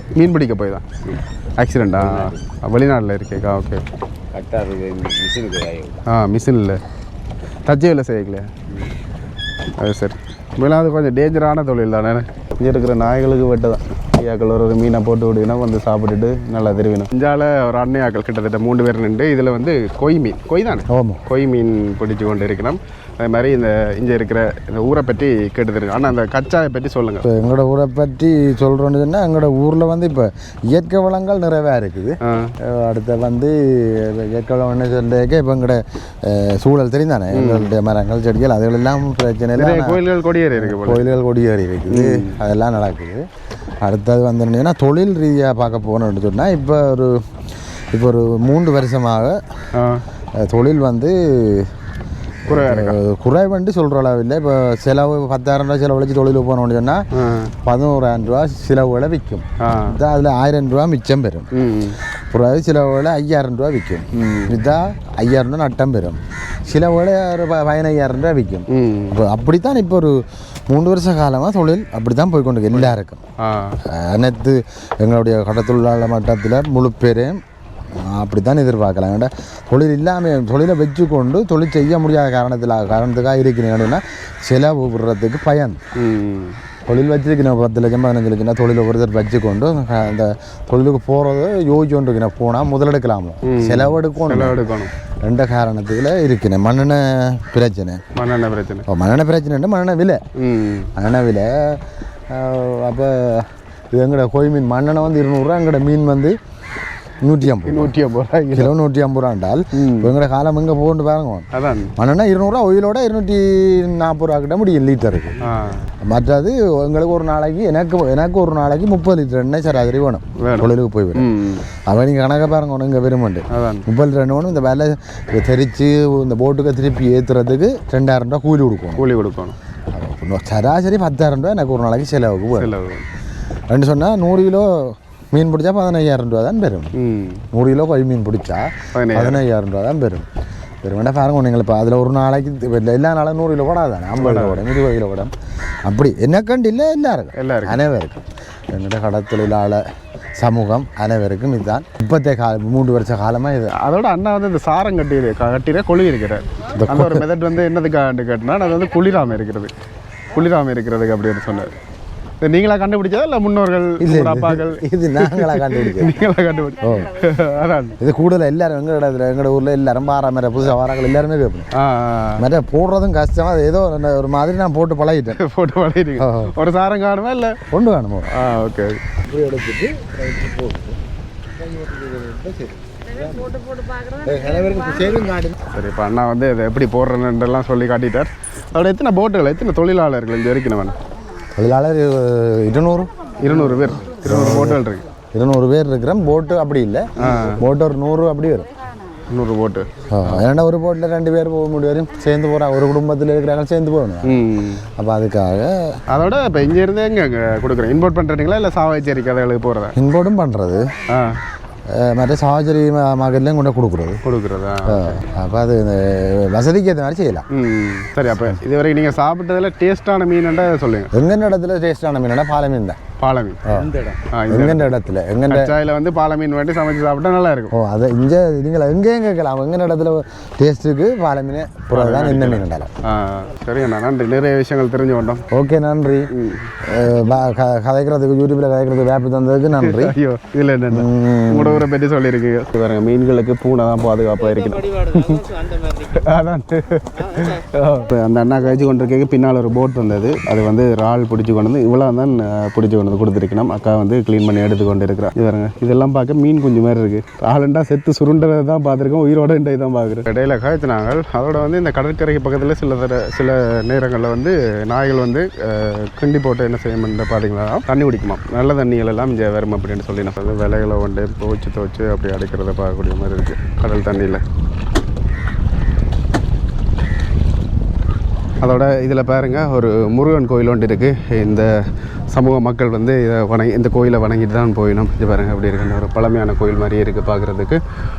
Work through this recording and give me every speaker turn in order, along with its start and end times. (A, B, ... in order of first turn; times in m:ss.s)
0:00.2-0:01.0 A
0:01.6-0:03.8 A
0:02.0-0:02.4 B
0:04.3-0:06.0 B
0:06.1-0:06.8 A
0:07.6-0:08.5 A
0:09.8-0:27.3 A
0:20.9-0:21.2 C
0:27.2-0:43.2 C
0:32.2-0:32.5 A
0:37.3-0:37.8 A
0:39.6-0:41.1 A
0:41.9-0:42.4 A
0:43.8-0:47.2 C
0:47.9-0:49.4 C
0:49.7-0:50.0 A
0:50.4-0:51.8 C
0:52.5-0:57.1 C
0:52.5-0:53.0 A
0:57.1-0:57.5 A
0:57.6-1:01.5 C
0:59.6-1:00.0 A
1:01.5-1:02.0 A
1:02.3-1:13.2 C
1:04.2-1:04.6 A
1:08.7-1:09.2 A
1:12.7-1:13.8 A
1:13.8-1:17.4 C
1:18.0-1:25.8 C
1:26.0-1:26.6 A
1:26.9-1:34.6 C
1:33.4-1:34.9 A
1:35.2-1:38.0 C
1:38.2-1:38.9 A
1:38.9-1:40.2 C
1:40.4-1:40.9 A
1:41.0-1:46.4 C
1:47.2-1:48.0 C
1:47.6-1:48.7 A
1:48.5-1:55.4 C
1:49.8-1:50.1 A
1:51.5-1:51.9 A
1:55.4-1:55.9 A
1:56.0-2:09.1 C
2:00.4-2:01.6 A
2:03.5-2:03.9 A
2:09.0-2:09.6 A
2:09.9-2:12.7 C
2:12.6-2:13.1 A
2:13.7-2:16.9 C
2:17.0-2:17.4 A
2:17.5-2:20.3 C
2:18.9-2:19.4 A
2:20.8-2:25.3 C
2:24.2-2:24.7 A
2:25.9-2:29.8 C
2:27.4-2:27.9 A
2:30.4-2:33.7 C
2:33.8-2:39.7 A
2:36.7-2:37.3 C
2:40.3-2:41.7 A
2:42.4-2:48.0 A
2:44.0-2:46.2 C
2:46.8-2:47.1 C
2:48.0-2:51.7 C
2:51.7-2:52.4 A
2:52.4-2:55.4 C
2:55.4-2:57.6 A
2:56.2-2:56.6 C
2:57.7-2:58.3 C
2:58.3-2:59.0 A
2:59.2-3:01.0 C
3:01.6-3:03.6 C
3:04.1-3:05.6 C
3:05.7-3:11.0 A
3:11.6-3:18.7 C
3:13.4-3:15.0 A
3:17.2-3:17.6 A
3:19.3-3:20.4 A
3:20.1-3:26.0 C
3:24.2-3:24.9 A
3:26.1-3:30.0 A
3:30.0-3:30.9 C
3:31.1-3:31.4 A
3:31.9-3:34.2 C
3:34.2-3:35.2 A
3:34.8-3:37.5 C
3:37.5-3:41.1 A
3:38.3-3:38.6 C
3:41.1-3:43.0 C
3:43.2-3:44.9 A
3:43.6-3:44.0 C
3:44.5-3:45.8 C
3:45.5-3:47.7 A
3:47.7-3:52.9 C
3:51.9-3:55.4 A
3:55.5-3:56.3 C
3:56.3-3:56.8 A
3:56.8-4:00.2 C
3:59.8-4:34.4 A
4:00.9-4:01.9 C
4:38.6-4:47.8 A